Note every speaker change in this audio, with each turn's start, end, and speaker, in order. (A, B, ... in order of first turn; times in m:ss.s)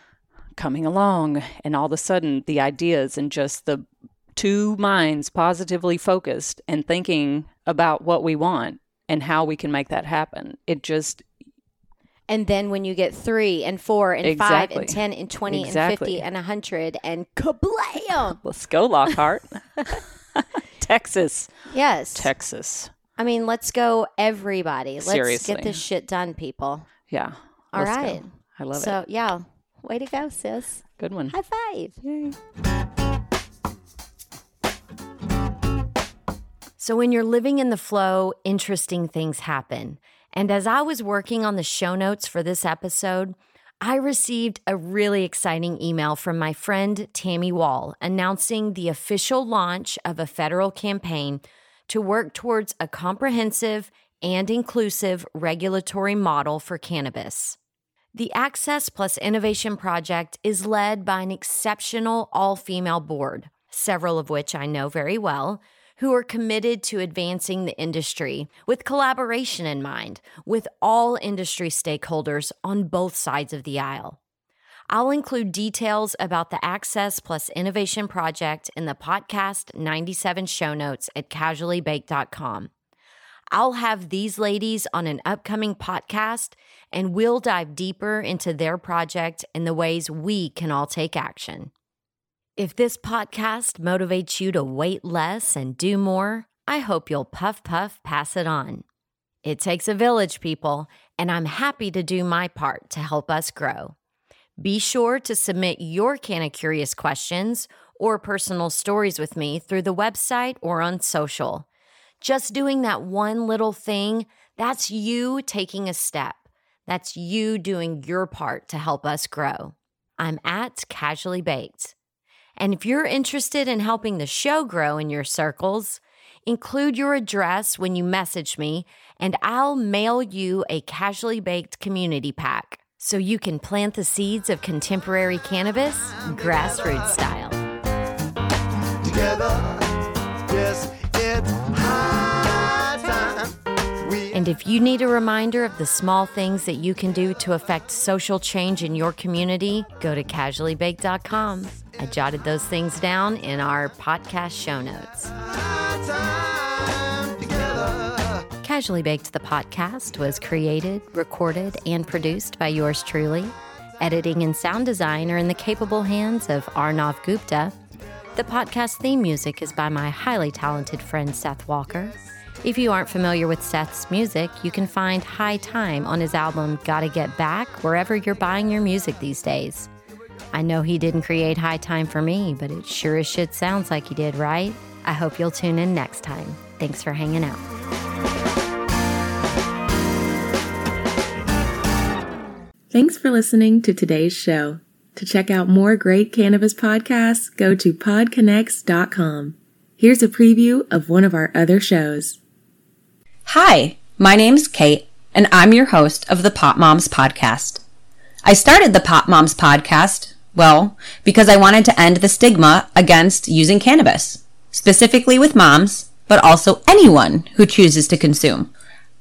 0:00.5-0:11.3 A
0:12.3-0:18.4 B
0:14.2-0:16.2 A
0:18.4-0:22.9 A
0:21.7-0:22.3 B
0:23.2-0:26.9 B
0:25.0-0:25.8 A
0:27.1-0:29.0 A
0:27.7-0:32.0 B
0:31.0-0:31.3 A
0:32.0-0:32.4 A
0:36.8-0:57.6 B
0:58.1-1:14.2 B
1:14.9-1:22.7 B
1:23.5-1:31.7 B
1:32.6-1:38.8 B
1:39.4-1:44.0 B
1:44.6-1:51.6 B
1:52.2-2:01.9 B
2:02.6-2:17.6 B
2:16.2-2:17.2 C
2:19.0-2:24.4 C
2:24.3-2:35.3 B
2:35.4-2:38.5 C
2:38.6-2:47.8 B
2:48.3-2:59.9 B
3:00.5-3:07.6 B
3:12.9-3:22.4 D
3:23.4-3:27.8 E
3:28.4-3:38.7 E